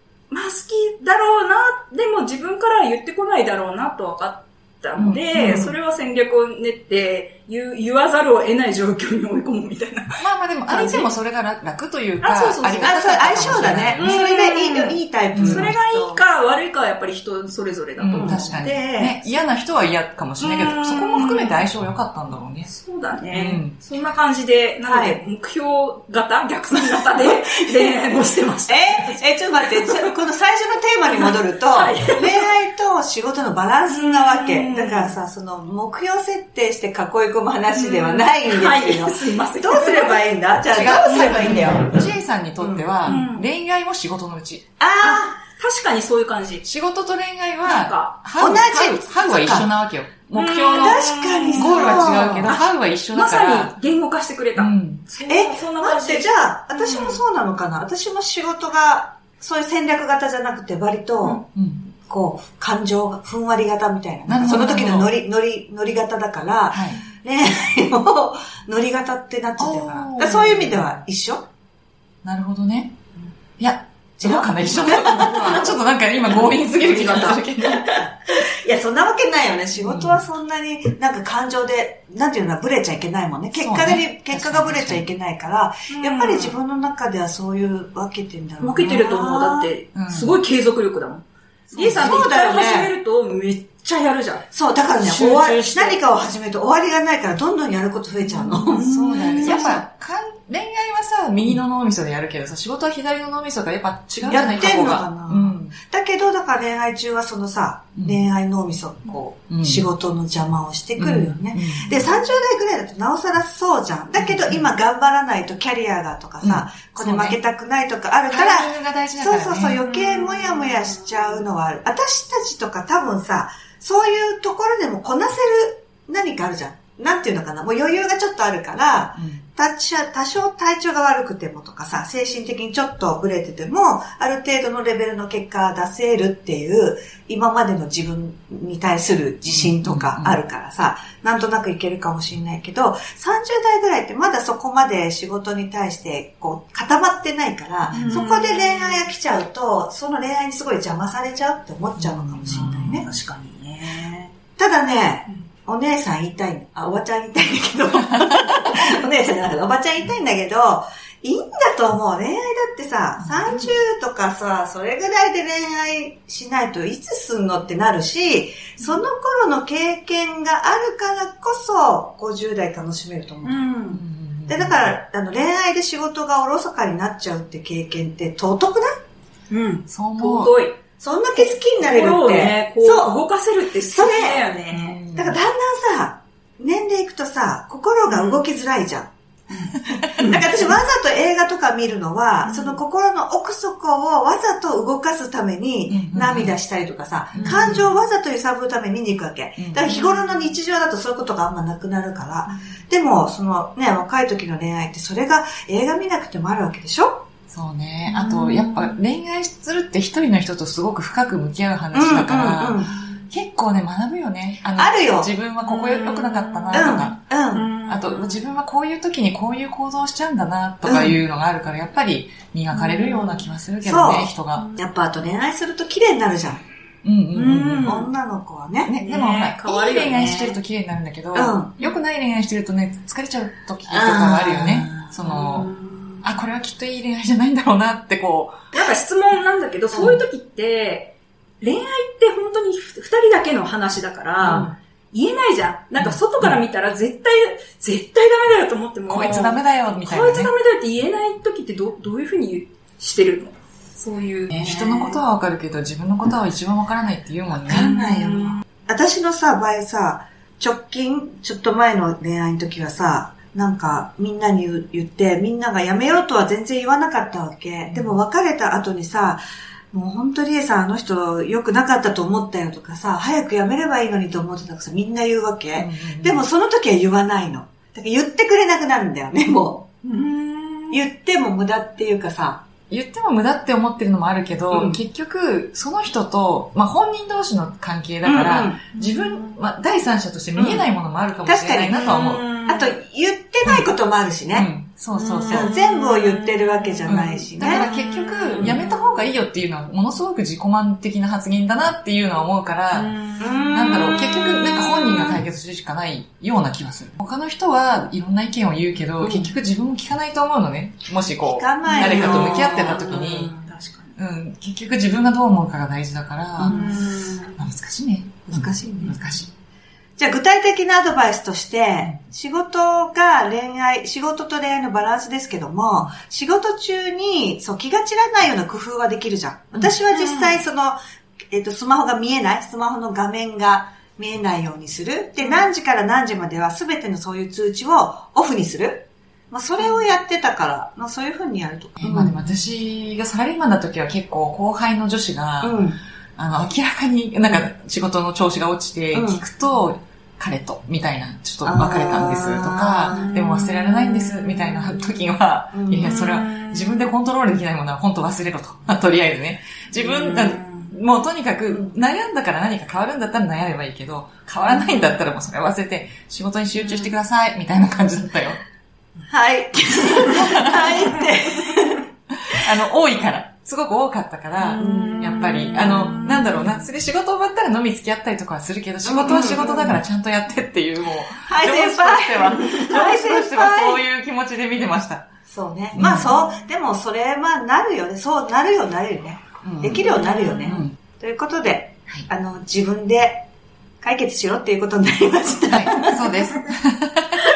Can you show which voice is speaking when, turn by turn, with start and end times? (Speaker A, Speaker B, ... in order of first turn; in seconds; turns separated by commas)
Speaker A: 0.3-11.1, Speaker B: 5.0-5.7, Speaker C: 5.3-5.7, Speaker B: 10.2-14.2, Speaker A: 12.2-18.9, Speaker C: 12.8-16.2, Speaker B: 15.3-15.7, Speaker B: 18.0-22.7, Speaker C: 18.1-19.2, Speaker A: 20.4-21.6, Speaker A: 22.6-30.1, Speaker B: 23.3-23.8, Speaker C: 24.8-25.2, Speaker C: 28.7-42.0, Speaker A: 31.0-32.4, Speaker A: 33.9-35.2, Speaker A: 37.7-40.2, Speaker B: 40.7-44.6, Speaker A: 40.9-41.8, Speaker C: 42.6-42.9, Speaker A: 43.0-43.5, Speaker C: 44.8-45.4, Speaker A: 45.0-46.6, Speaker B: 46.6-53.7, Speaker A: 47.6-48.2, Speaker C: 48.4-49.7, Speaker A: 50.3-57.2, Speaker C: 50.7-52.5, Speaker B: 54.5-55.0, Speaker C: 55.2-71.4, Speaker B: 61.5-61.8, Speaker B: 64.3-65.1, Speaker B: 66.7-67.0, Speaker B: 69.6-70.8, Speaker B: 72.2-72.9, Speaker B: 73.6-77.9, Speaker C: 74.2-75.7, Speaker A: 75.1-75.7, Speaker A: 76.4-77.4, Speaker C: 76.9-89.7, Speaker B: 79.7-80.2, Speaker B: 83.5-85.0, Speaker A: 85.9-86.5, Speaker A: 88.6-94.5, Speaker B: 89.9-90.4, Speaker B: 91.7-92.2, Speaker C: 91.8-92.9, Speaker C: 94.5-99.8, Speaker A: 95.0-96.0, Speaker A: 98.2-99.8, Speaker B: 98.6-105.7, Speaker C: 104.2-153.0, Speaker B: 108.0-108.2, Speaker B: 109.5-109.8, Speaker B: 111.0-112.0, Speaker B: 114.2-114.7, Speaker B: 116.4-117.4, Speaker B: 118.3-119.8, Speaker A: 119.8-121.3, Speaker B: 129.2-129.4, Speaker B: 139.5-140.4, Speaker A: 147.9-149.1, Speaker B: 152.0-152.9, Speaker A: 152.5-154.3, Speaker C: 154.6-179.0, Speaker A: 173.4-174.0, Speaker B: 173.9-174.9, Speaker A: 179.5-180.8, Speaker B: 179.9-180.5, Speaker C: 181.0-183.2, Speaker A: 181.4-185.0, Speaker C: 183.9-184.4, Speaker B: 184.7-185.4, Speaker C: 185.1-189.1, Speaker A: 188.1-188.4, Speaker A: 189.5-190.4, Speaker B: 189.9-190.3, Speaker C: 189.9-207.2, Speaker A: 192.4-192.8, Speaker B: 195.9-196.6, Speaker B: 197.3-197.9, Speaker A: 197.3-197.8, Speaker B: 199.6-199.9, Speaker A: 199.9-200.4, Speaker B: 207.5-217.2, Speaker A: 208.1-209.0, Speaker C: 211.9-212.9, Speaker C: 214.8-215.3, Speaker A: 215.6-218.4, Speaker C: 216.7-217.7, Speaker B: 217.8-224.7, Speaker C: 220.8-221.2, Speaker A: 222.7-223.5, Speaker C: 223.8-226.6, Speaker A: 224.5-224.8, Speaker B: 227.0-227.9, Speaker A: 227.3-228.1, Speaker C: 227.8-228.9, Speaker B: 228.8-238.6, Speaker A: 229.0-230.6, Speaker C: 231.3-231.7, Speaker C: 233.9-235.1, Speaker A: 235.2-236.2, Speaker A: 238.7-255.2, Speaker C: 244.4-244.7, Speaker B: 246.0-246.6, Speaker B: 249.1-250.5, Speaker B: 254.5-257.9, Speaker C: 257.6-279.9, Speaker A: 257.7-258.6, Speaker B: 267.9-268.2, Speaker B: 275.8-276.4, Speaker A: 280.0-281.0, Speaker C: 280.9-282.6, Speaker B: 282.9-292.4, Speaker C: 284.7-285.0, Speaker C: 288.2-288.8, Speaker A: 288.9-289.5, Speaker C: 290.5-290.9, Speaker C: 291.4-294.7, Speaker A: 291.9-292.9, Speaker B: 294.5-295.7, Speaker A: 295.1-299.1, Speaker C: 295.5-297.8, Speaker B: 297.1-313.5, Speaker A: 302.9-304.3, Speaker C: 303.4-305.2, Speaker C: 309.2-309.5, Speaker C: 311.4-313.4, Speaker A: 311.8-314.1, Speaker B: 314.2-317.0, Speaker A: 316.6-317.6, Speaker B: 317.6-319.5, Speaker C: 318.5-319.2, Speaker C: 320.2-331.0, Speaker A: 330.1-330.6, Speaker C: 331.5-342.4, Speaker A: 335.4-335.6, Speaker A: 339.8-340.1, Speaker B: 342.0-345.8, Speaker C: 345.6-346.0, Speaker B: 346.4-368.6, Speaker C: 349.1-349.4, Speaker C: 351.6-353.3, Speaker A: 353.1-354.9, Speaker C: 355.7-356.1, Speaker A: 356.0-357.1, Speaker A: 359.9-360.9, Speaker C: 369.3-372.0, Speaker B: 370.3-371.1, Speaker B: 372.3-385.2, Speaker A: 374.6-376.6, Speaker C: 374.8-375.5, Speaker C: 379.0-380.0, Speaker C: 381.4-384.0, Speaker C: 385.5-393.4, Speaker B: 385.9-386.4, Speaker B: 389.6-390.1, Speaker A: 390.1-390.8, Speaker B: 390.6-390.9, Speaker C: 394.0-396.5, Speaker B: 395.7-397.4